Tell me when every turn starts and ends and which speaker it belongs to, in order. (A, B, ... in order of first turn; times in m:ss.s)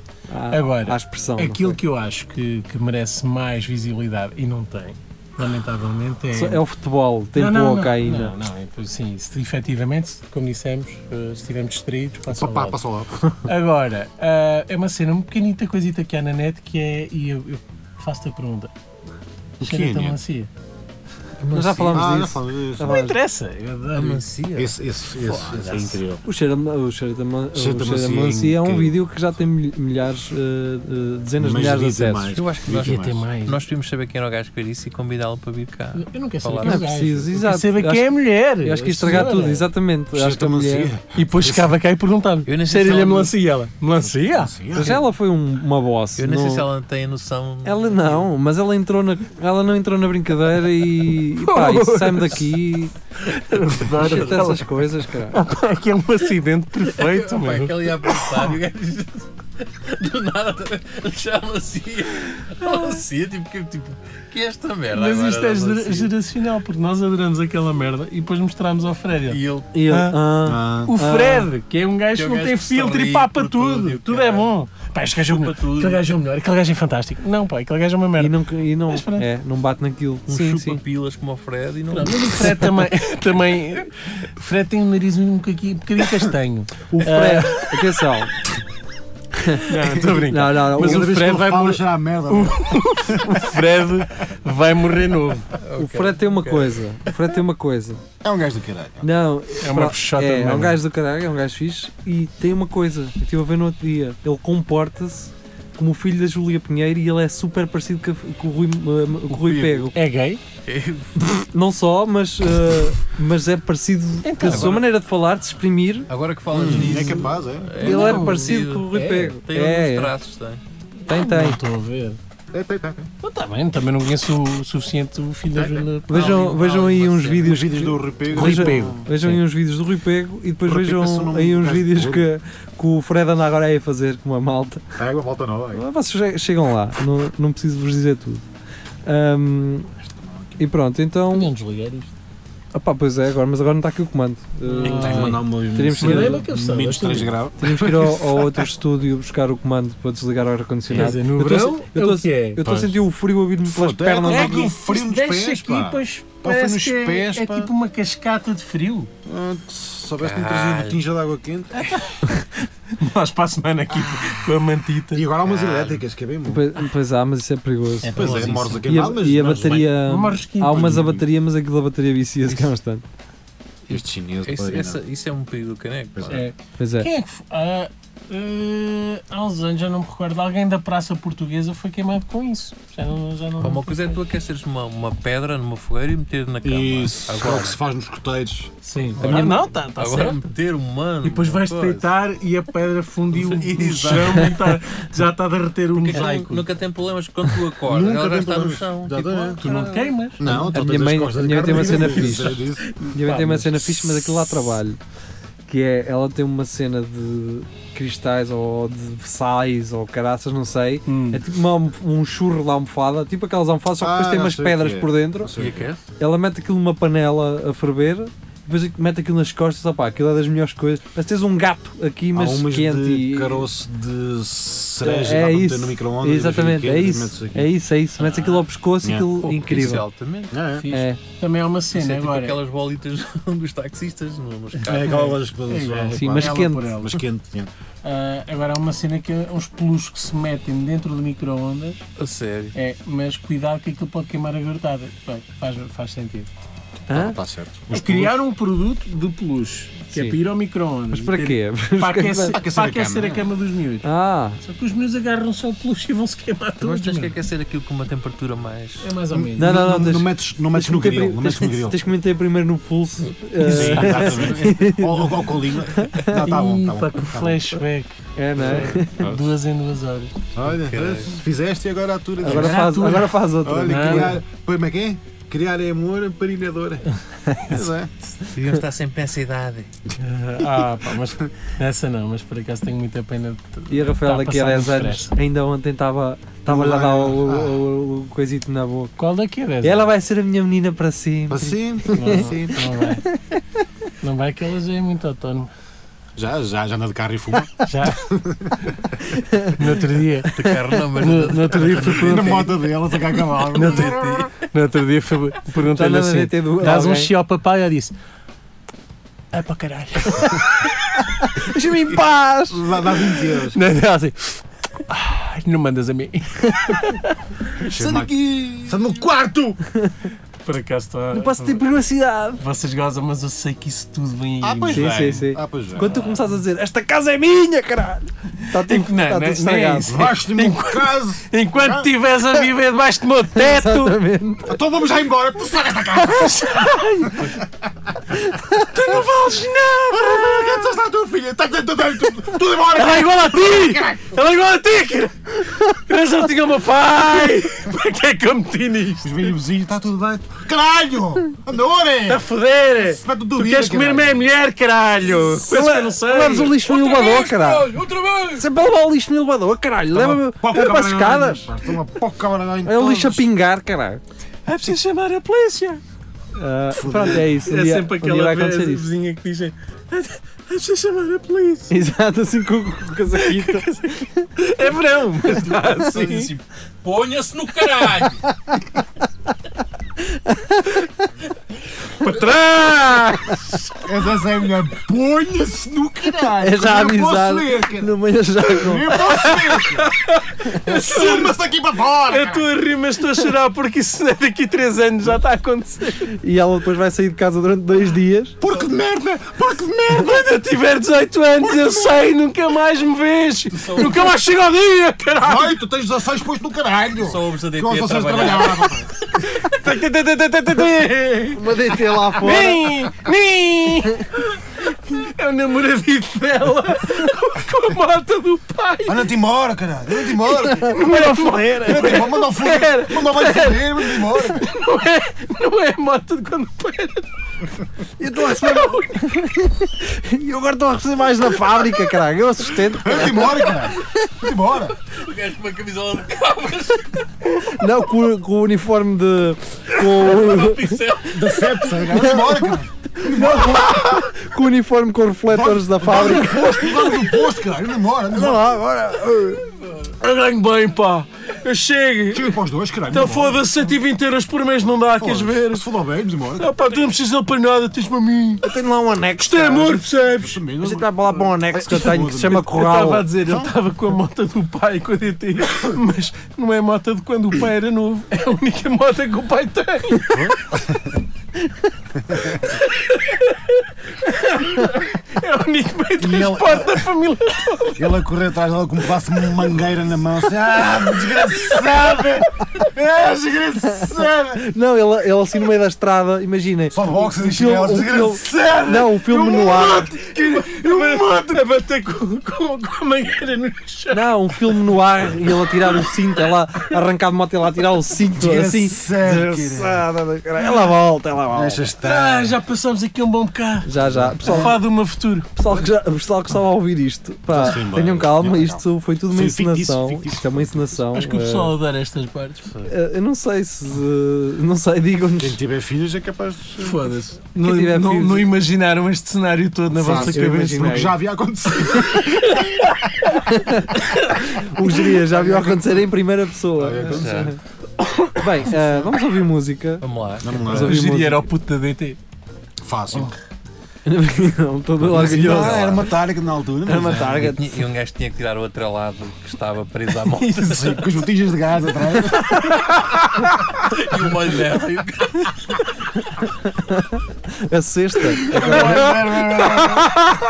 0:00.3-0:01.8 A
0:00.5-0:06.6 B
0:06.3-0:08.4 A
0:07.4-0:12.8 B
0:12.3-0:13.4 C
0:13.4-0:18.7 B
0:19.6-0:20.2 C
0:19.6-0:20.5 B
0:21.4-0:22.1 D
0:21.5-0:23.2 A
0:21.9-0:23.0 C
0:22.8-0:24.2 B
0:24.0-0:26.0 D
0:24.6-0:26.2 C
0:26.2-0:32.4 A
0:27.5-0:29.0 C
0:31.4-0:33.2 C
0:32.3-0:36.9 D
0:32.8-0:33.6 B
0:36.0-0:39.7 B
0:36.6-0:38.1 A
0:38.6-0:40.9 A
0:39.1-0:39.4 C
0:40.1-0:41.7 C
0:41.1-0:44.6 B
0:42.5-0:43.3 D
0:44.2-0:45.0 C
0:44.7-0:46.7 A
0:46.2-0:48.3 D
0:47.6-0:52.9 A
0:51.4-0:52.6 B
0:53.2-0:54.7 B
0:53.9-0:55.4 A
0:54.0-0:54.6 D
0:55.3-0:58.5 B
0:56.8-1:06.1 D
1:02.6-1:02.9 B
1:04.9-1:10.2 B
1:09.3-1:09.8 D
1:09.7-1:11.5 A
1:10.4-1:11.0 C
1:10.9-1:19.3 B
1:12.2-1:14.5 D
1:15.2-1:16.1 D
1:18.2-1:20.8 A
1:20.3-1:22.6 D
1:21.9-1:28.0 B
1:26.9-1:28.4 A
1:29.4-1:31.5 A
1:29.7-1:35.6 B
1:30.0-1:33.4 C
1:35.6-1:36.8 D
1:35.8-1:38.0 A
1:38.2-1:39.1 C
1:39.0-1:50.0 A
1:39.6-1:40.8 B
1:49.3-1:49.9 D
1:49.9-1:50.4 B
1:50.7-1:51.2 D
1:51.2-1:56.1 A
1:54.2-1:54.8 B
1:54.4-1:54.8 D
1:56.1-2:00.6 D
1:56.5-1:57.8 C
1:56.8-1:57.2 B
1:57.8-1:59.4 B
1:57.8-2:00.1 A
2:01.1-2:01.6 A
2:01.1-2:02.2 B
2:02.5-2:03.1 C
2:03.2-2:06.5 B
2:05.5-2:05.9 C
2:06.1-2:14.8 A
2:06.1-2:07.7 D
2:07.4-2:09.1 C
2:08.3-2:09.4 B
2:10.6-2:12.3 C
2:15.0-2:15.8 C
2:15.7-2:18.4 A
2:19.1-2:19.9 A
2:20.0-2:20.7 C
2:20.6-2:21.5 A
2:21.3-2:22.1 B
2:22.7-2:26.5 A
2:24.7-2:25.5 B
2:24.8-2:28.4 C
2:26.0-2:27.4 B
2:27.6-2:34.7 A
2:30.9-2:32.6 B
2:32.6-2:33.0 C
2:33.6-2:37.7 C
2:34.2-2:39.1 B
2:39.2-2:42.0 C
2:40.2-2:41.0 D
2:41.8-2:42.4 B
2:43.0-2:45.3 B
2:45.1-2:46.7 C
2:45.4-2:46.0 D
2:46.5-2:53.0 A
2:48.0-2:48.9 B
2:48.1-2:50.0 C
2:48.2-2:48.8 D
2:50.0-2:51.0 B
2:50.7-2:51.3 C
2:52.4-2:52.7 D
2:53.9-2:55.0 C
2:53.9-2:56.4 D
2:56.2-2:56.5 C
2:56.3-3:04.2 B
2:56.8-2:57.1 A
3:03.6-3:07.8 D
3:06.6-3:09.5 C
3:08.8-3:10.4 B
3:09.2-3:12.1 D
3:11.2-3:16.7 B
3:13.3-3:14.8 D
3:15.9-3:20.6 D
3:17.8-3:19.6 C
3:19.6-3:20.6 B
3:20.4-3:22.9 C
3:20.5-3:25.0 A
3:21.6-3:24.0 B
3:25.7-3:35.5 A
3:31.1-3:31.4 B
3:34.0-3:35.9 C
3:35.6-3:36.0 D
3:36.2-3:43.7 A
3:42.3-3:49.3 C
3:45.0-3:50.0 A
3:49.4-3:50.6 D
3:50.5-3:50.9 C
3:50.7-3:52.6 B
3:50.9-3:51.2 A
3:51.9-3:55.3 D
3:54.8-3:57.7 C
3:54.9-3:57.2 B
3:56.2-3:56.9 A
3:58.0-4:02.0 B
4:02.2-4:02.8 D
4:02.8-4:06.5 B
4:07.1-4:08.4 C
4:07.1-4:07.4 A
4:07.9-4:17.3 B
4:10.1-4:10.4 A
4:11.1-4:12.6 A
4:12.4-4:13.5 C
4:14.0-4:14.6 A
4:16.8-4:19.1 D
4:19.0-4:19.8 B
4:19.3-4:22.1 C
4:19.6-4:25.4 A
4:23.6-4:27.8 C
4:23.6-4:24.3 B
4:24.2-4:24.9 D
4:26.0-4:26.5 A
4:26.3-4:30.4 B
4:28.4-4:29.4 A
4:28.6-4:29.4 C
4:30.5-4:37.1 C
4:30.7-4:31.4 D
4:32.4-4:34.4 A
4:32.4-4:34.4 B
4:37.6-4:38.1 C
4:38.5-4:39.9 D
4:40.2-4:45.4 B
4:40.6-4:41.5 C
4:43.9-4:49.1 A
4:46.7-4:47.8 C
4:49.2-4:50.1 B
4:49.8-4:52.6 A
4:51.5-4:52.9 C
4:52.1-4:53.2 B
4:54.2-4:55.7 B
4:56.4-4:59.0 C
4:57.9-4:58.2 B
4:59.3-4:59.8 A
4:59.8-5:00.6 B
5:00.5-5:02.7 D
5:01.2-5:02.7 B
5:02.0-5:04.4 C
5:03.7-5:04.6 D
5:03.7-5:08.1 B
5:05.9-5:07.3 A
5:09.5-5:10.9 B
5:11.4-5:12.8 A
5:12.7-5:13.8 C
5:13.7-5:19.3 B
5:17.8-5:19.8 C
5:20.6-5:21.8 B
5:21.3-5:22.6 A
5:22.6-5:25.2 B
5:24.6-5:26.2 C
5:24.9-5:30.2 A
5:28.7-5:34.2 B
5:30.1-5:32.1 C
5:33.6-5:34.8 A
5:34.6-5:37.6 C
5:36.2-5:37.6 B
5:38.5-5:38.8 A
5:38.9-5:40.8 B
5:40.1-5:44.3 C
5:42.9-5:49.5 B
5:49.2-5:52.4 C
5:52.3-5:56.8 B
5:53.0-5:54.5 C
5:55.6-5:58.0 A
5:56.7-5:58.6 D
5:58.6-6:01.7 A
6:00.1-6:03.5 C
6:02.8-6:04.2 A
6:04.7-6:06.0 B
6:06.6-6:09.1 A
6:06.9-6:07.5 C
6:07.4-6:12.0 B
6:11.9-6:14.4 A
6:13.3-6:16.5 B
6:15.9-6:18.4 D
6:20.2-6:21.2 A
6:22.2-6:23.9 B
6:24.0-6:30.1 C
6:26.6-6:29.5 A
6:29.5-6:31.6 B
6:30.8-6:32.7 C
6:32.3-6:36.4 B
6:36.4-6:38.6 A
6:38.6-6:40.4 C
6:40.1-6:45.8 B
6:43.8-6:44.2 D
6:45.4-6:49.1 C
6:47.2-6:48.9 D
6:49.2-6:59.3 B
6:51.5-6:53.1 A
6:59.1-7:01.1 C
7:00.8-7:07.3 B
7:00.9-7:01.3 A
7:01.8-7:04.7 C
7:08.2-7:13.8 A
7:08.6-7:09.1 B
7:12.9-7:15.0 C
7:15.1-7:17.3 D
7:17.6-7:21.1 A
7:20.6-7:21.1 D
7:21.3-7:24.0 C
7:22.0-7:27.3 A
7:25.5-7:28.8 C
7:28.3-7:29.6 A
7:30.2-7:35.9 B
7:32.3-7:33.6 C
7:35.2-7:36.8 C
7:36.6-7:38.7 B
7:38.6-7:40.0 A
7:39.4-7:40.6 B
7:40.2-7:42.7 C
7:40.8-7:43.3 A
7:41.9-7:50.5 B
7:43.4-7:43.7 C
7:50.3-7:51.2 C
7:52.2-7:52.7 C
7:52.6-7:58.2 B
7:56.2-7:57.0 C
7:58.0-8:04.7 C
8:00.8-8:02.3 B
8:04.0-8:10.1 A
8:06.9-8:08.9 C
8:08.5-8:14.9 B
8:10.6-8:11.2 C
8:14.1-8:21.9 A
8:18.3-8:20.1 C
8:21.5-8:22.6 C
8:22.0-8:23.9 B
8:23.8-8:24.8 A
8:24.0-8:24.8 C
8:24.4-8:25.5 B
8:25.6-8:31.8 A
8:25.7-8:25.9 C
8:27.5-8:31.0 C
8:31.1-8:32.9 B
8:32.9-8:35.6 A
8:35.4-8:37.1 C
8:36.8-8:41.1 B
8:37.6-8:38.5 A
8:39.9-8:43.0 C
8:40.0-8:41.2 A
8:42.0-8:43.4 B
8:43.5-8:47.6 A
8:45.0-8:46.2 C
8:46.7-8:47.6 C
8:47.1-8:47.5 D
8:48.1-8:48.4 B
8:48.4-8:50.0 A
8:48.7-8:49.0 C
8:50.0-8:50.6 D
8:50.4-8:51.1 C
8:50.6-8:51.5 A
8:50.7-8:52.2 B
8:52.8-8:53.3 C
8:54.0-8:56.1 A
8:55.0-8:57.6 C
8:55.1-8:56.0 D
8:56.9-8:57.8 A
8:57.4-9:00.9 D
9:00.3-9:01.0 B
9:00.6-9:03.0 C
9:03.8-9:05.6 D
9:06.6-9:09.5 A
9:08.5-9:09.8 B
9:08.5-9:10.4 C